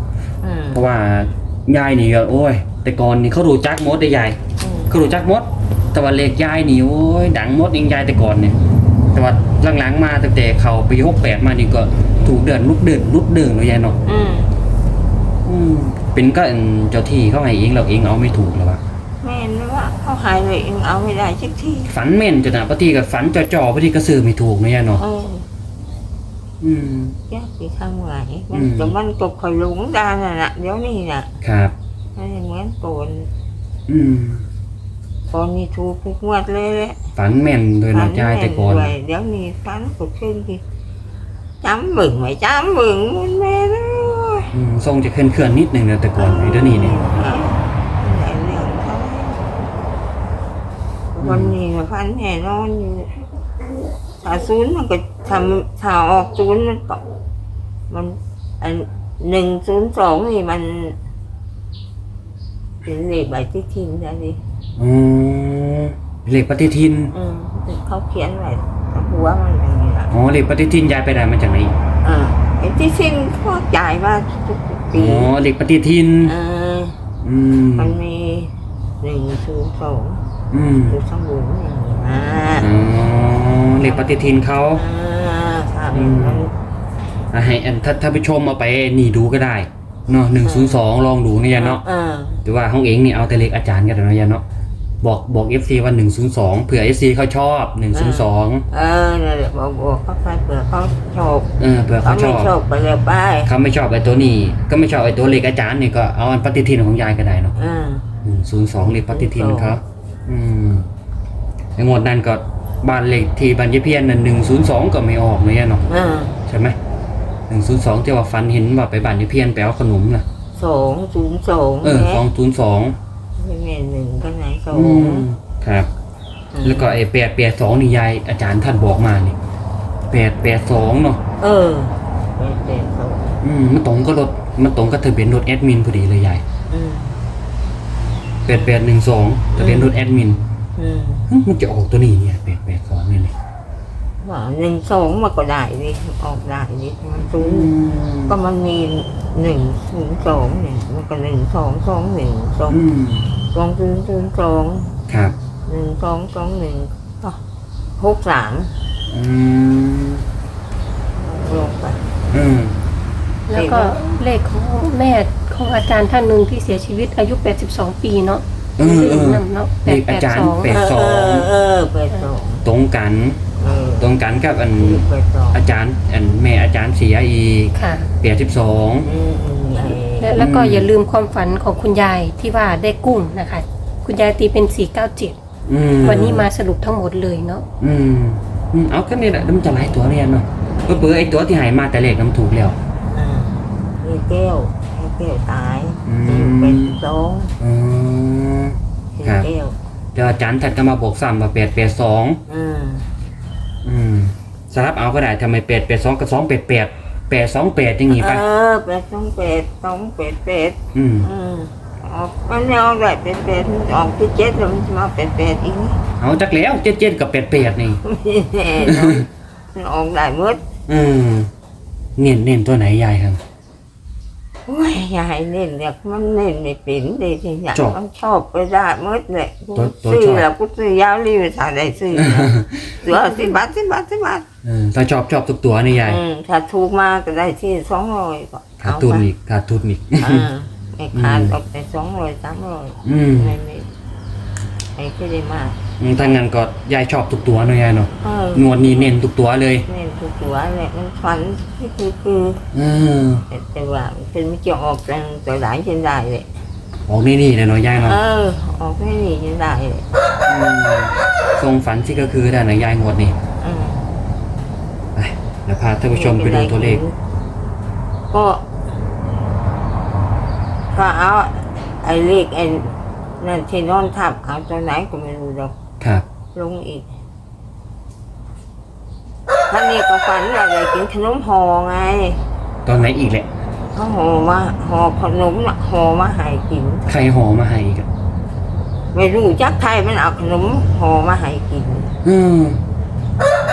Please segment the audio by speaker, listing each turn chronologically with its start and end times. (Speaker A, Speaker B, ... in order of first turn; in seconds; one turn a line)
Speaker A: 0.4-0.8
Speaker B: 0.7-4.4
Speaker A: 4.6-5.0
Speaker B: 4.9-8.6
Speaker B: 9.1-14.0
Speaker A: 14.1-14.5
Speaker B: 15.4-18.8
Speaker A: 19.2-21.9
Speaker B: 21.9-25.0
Speaker A: 25.0-25.4
Speaker B: 26.6-27.2
Speaker A: 27.3-31.3
Speaker B: 28.5-28.9
Speaker B: 31.4-31.7
Speaker A: 32.2-33.3
Speaker B: 33.9-34.5
Speaker A: 35.3-37.0
Speaker B: 37.2-38.9
Speaker A: 37.9-40.6
Speaker A: 41.6-44.5
Speaker B: 44.5-47.0
Speaker A: 46.2-49.4
Speaker A: 51.1-53.1
Speaker B: 51.2-51.6
Speaker A: 54.2-57.1
Speaker A: 57.9-61.0
Speaker A: 62.8-64.4
Speaker B: 64.8-67.1
Speaker A: 67.1-70.1
Speaker B: 70.1-71.8
Speaker A: 72.0-75.3
Speaker B: 74.9-76.3
Speaker A: 76.2-77.0
Speaker B: 77.2-78.0
Speaker A: 77.8-80.2
Speaker B: 80.5-81.0
Speaker A: 80.9-82.7
Speaker B: 82.6-84.8
Speaker A: 83.8-86.5
Speaker B: 85.9-86.5
Speaker B: 87.3-91.8
Speaker A: 90.4-90.8
Speaker A: 91.6-92.4
Speaker B: 92.5-94.4
Speaker B: 95.0-98.7
Speaker A: 97.9-101.5
Speaker B: 101.6-102.5
Speaker A: 102.0-103.5
Speaker B: 103.5-107.5
Speaker A: 107.6-108.1
Speaker B: 108.2-110.9
Speaker A: 109.1-109.8
Speaker B: 111.8-115.8
Speaker A: 115.9-116.4
Speaker B: 116.5-116.8
Speaker B: 117.5-120.2
Speaker A: 120.5-122.2
Speaker B: 121.8-123.0
Speaker A: 123.4-125.3
Speaker B: 124.7-125.9
Speaker A: 126.5-127.0
Speaker B: 126.6-129.4
Speaker B: 130.1-131.2
Speaker A: 131.4-133.4
Speaker B: 133.4-136.4
Speaker A: 136.7-137.2
Speaker B: 138.5-140.4
Speaker A: 138.5-138.8
Speaker A: 139.5-139.9
Speaker A: 140.8-141.3
Speaker B: 141.3-143.3
Speaker A: 144.2-147.7
Speaker B: 147.3-148.3
Speaker A: 148.3-152.8
Speaker B: 152.7-153.3
Speaker A: 153.5-154.9
Speaker B: 155.1-155.3
Speaker A: 155.7-157.4
Speaker A: 158.0-158.7
Speaker B: 159.1-160.2
Speaker A: 161.2-162.0
Speaker B: 162.3-162.8
Speaker C: 163.5-170.7
Speaker A: 163.5-164.0
Speaker B: 168.8-171.5
Speaker A: 170.7-172.6
Speaker B: 172.7-173.4
Speaker A: 173.6-174.1
Speaker B: 174.0-179.1
Speaker A: 174.8-175.6
Speaker C: 177.8-178.1
Speaker A: 179.0-180.4
Speaker C: 180.2-185.4
Speaker B: 180.4-180.9
Speaker B: 185.7-186.5
Speaker A: 186.0-186.4
Speaker C: 186.0-187.7
Speaker B: 187.8-192.8
Speaker A: 193.1-197.5
Speaker B: 196.1-197.0
Speaker B: 197.6-199.5
Speaker A: 199.2-199.8
Speaker B: 200.2-202.4
Speaker A: 202.5-203.1
Speaker B: 203.8-208.4
Speaker A: 208.1-216.0
Speaker B: 210.9-211.3
Speaker B: 216.2-218.0
Speaker A: 218.0-220.6
Speaker B: 218.8-219.3
Speaker B: 220.9-221.5
Speaker B: 222.2-223.4
Speaker A: 224.7-234.4
Speaker B: 229.8-230.5
Speaker B: 232.1-233.1
Speaker B: 234.7-236.2
Speaker A: 236.0-239.3
Speaker B: 238.8-240.5
Speaker A: 240.2-243.9
Speaker B: 241.1-241.6
Speaker B: 243.1-243.6
Speaker A: 245.0-246.4
Speaker B: 246.0-249.9
Speaker A: 248.2-249.2
Speaker A: 249.9-252.6
Speaker B: 252.7-253.4
Speaker A: 253.5-256.5
Speaker B: 257.1-258.2
Speaker A: 257.9-260.1
Speaker B: 260.5-263.4
Speaker A: 263.6-264.1
Speaker B: 265.1-267.0
Speaker A: 266.1-267.1
Speaker A: 268.3-268.6
Speaker A: 270.9-275.7
Speaker A: 276.5-277.1
Speaker A: 279.7-282.4
Speaker B: 282.9-283.5
Speaker A: 283.9-287.1
Speaker B: 287.1-288.1
Speaker A: 289.1-292.1
Speaker B: 292.2-292.8